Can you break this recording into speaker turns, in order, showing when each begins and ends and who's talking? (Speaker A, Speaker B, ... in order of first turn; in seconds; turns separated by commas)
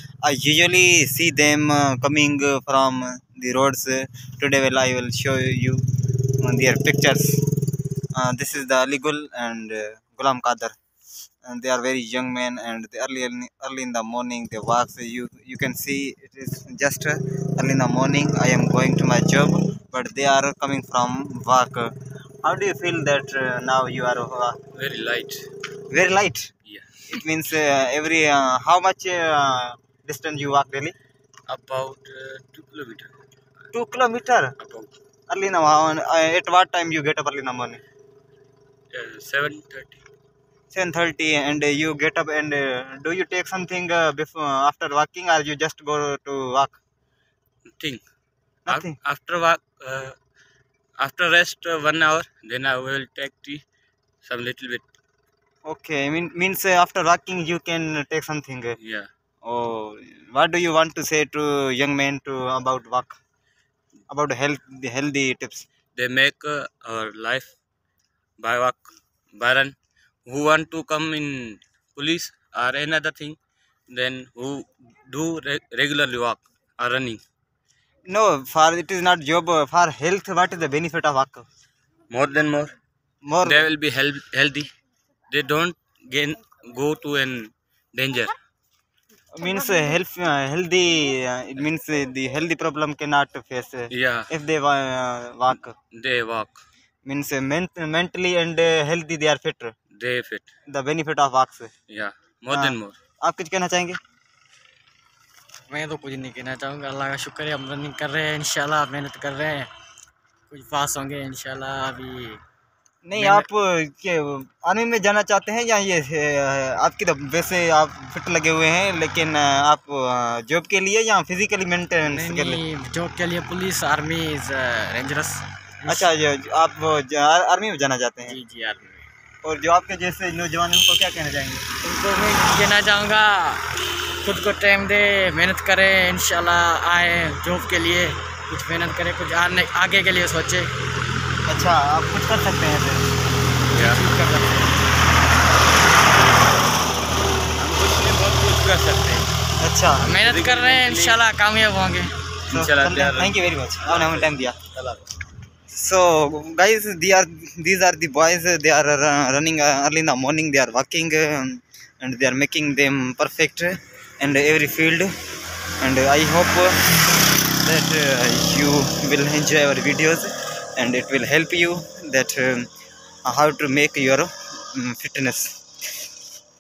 Speaker A: 0.2-5.8, Speaker A: 6.4-7.4, Speaker A: 8.1-10.8, Speaker A: 11.4-21.9, Speaker A: 22.4-24.6, Speaker B: 24.7-25.5, Speaker A: 25.9-26.5, Speaker B: 26.7-27.0, Speaker A: 27.1-30.9, Speaker B: 31.5-33.1, Speaker A: 33.7-34.5, Speaker B: 34.6-34.9, Speaker A: 35.3-37.8, Speaker B: 38.9-40.0, Speaker A: 40.7-46.8, Speaker B: 47.8-48.0, Speaker A: 48.7-49.0, Speaker B: 48.7-50.2, Speaker B: 51.0-53.6, Speaker B: 54.2-54.8, Speaker A: 55.6-58.8, Speaker B: 58.8-59.1, Speaker A: 59.4-63.2, Speaker A: 64.1-65.7, Speaker B: 66.0-67.5, Speaker B: 68.4-69.8, Speaker B: 70.2-73.4, Speaker B: 73.9-77.2, Speaker A: 78.0-81.5, Speaker B: 82.1-82.8, Speaker A: 83.2-83.7, Speaker B: 83.4-84.7, Speaker B: 85.3-88.3, Speaker A: 89.3-95.8, Speaker B: 93.9-94.3, Speaker B: 95.9-96.6, Speaker A: 97.0-99.8, Speaker B: 99.9-100.5, Speaker A: 100.7-101.7, Speaker B: 101.9-103.0, Speaker A: 102.5-104.0, Speaker C: 105.7-109.7, Speaker C: 110.5-112.4, Speaker A: 113.0-122.6, Speaker C: 113.2-113.5, Speaker C: 122.1-126.1, Speaker A: 125.9-128.4, Speaker C: 128.2-129.1, Speaker A: 129.4-131.7, Speaker C: 131.8-140.7, Speaker A: 141.5-143.2, Speaker C: 143.7-144.8, Speaker B: 143.7-144.0, Speaker B: 147.5-149.3, Speaker A: 149.6-150.1, Speaker C: 150.0-152.2, Speaker B: 150.1-151.2, Speaker B: 152.5-153.4, Speaker A: 152.5-154.6, Speaker B: 153.9-155.0, Speaker A: 155.7-165.1, Speaker A: 165.8-166.8, Speaker A: 167.6-172.7, Speaker A: 173.2-175.6